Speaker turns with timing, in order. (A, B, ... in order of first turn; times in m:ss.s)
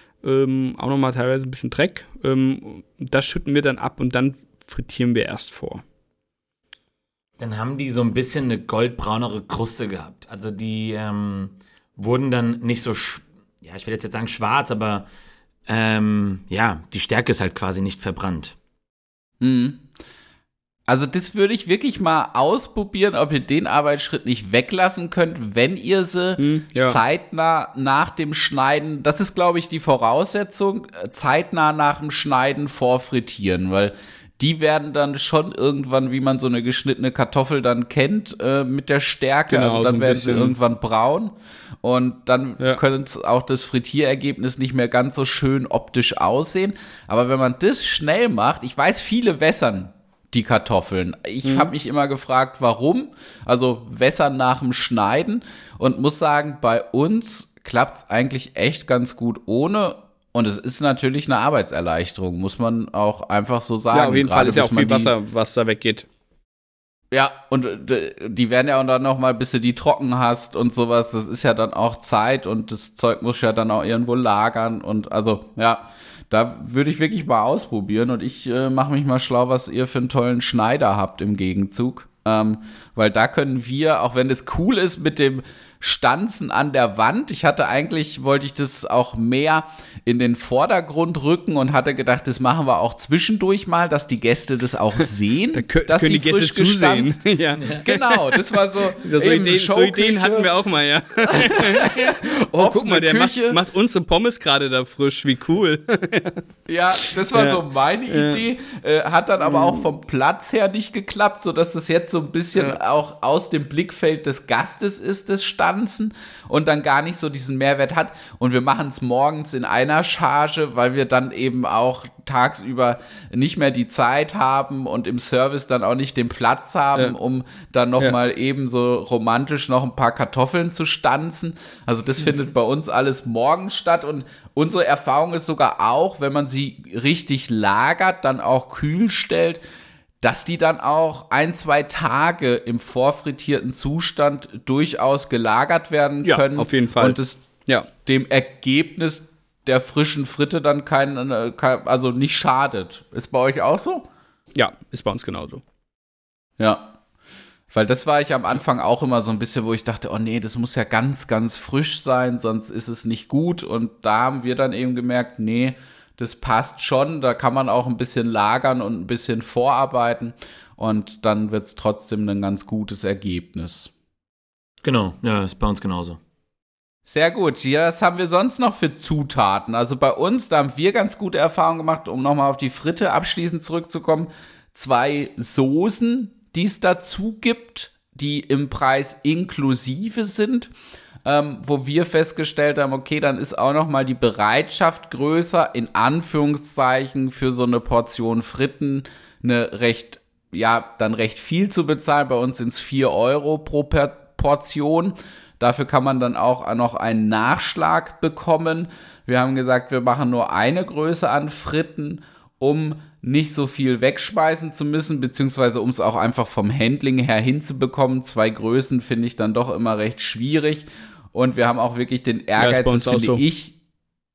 0:00.2-0:05.8 A
0:07.4-0:15.1 B
0:15.7-0:18.5 B
0:19.4-0:19.8 C
0:20.9-1:05.1 C
0:26.4-0:27.0 A
0:39.5-0:40.6 A
0:51.4-0:51.7 A
1:03.9-1:06.0 A
1:07.1-1:40.5 C
1:35.5-1:46.4 A
1:41.3-1:43.6 C
1:46.7-2:19.6 C
1:47.0-1:48.4 A
1:49.4-1:49.8 A
2:20.2-2:27.4 C
2:26.2-2:27.9 A
2:28.0-2:34.1 C
2:34.5-2:35.6 A
2:36.6-2:36.9 C
2:37.7-2:53.9 C
2:54.8-2:56.2 B
2:57.0-3:10.7 C
3:11.2-3:43.7 C
3:42.6-3:43.4 A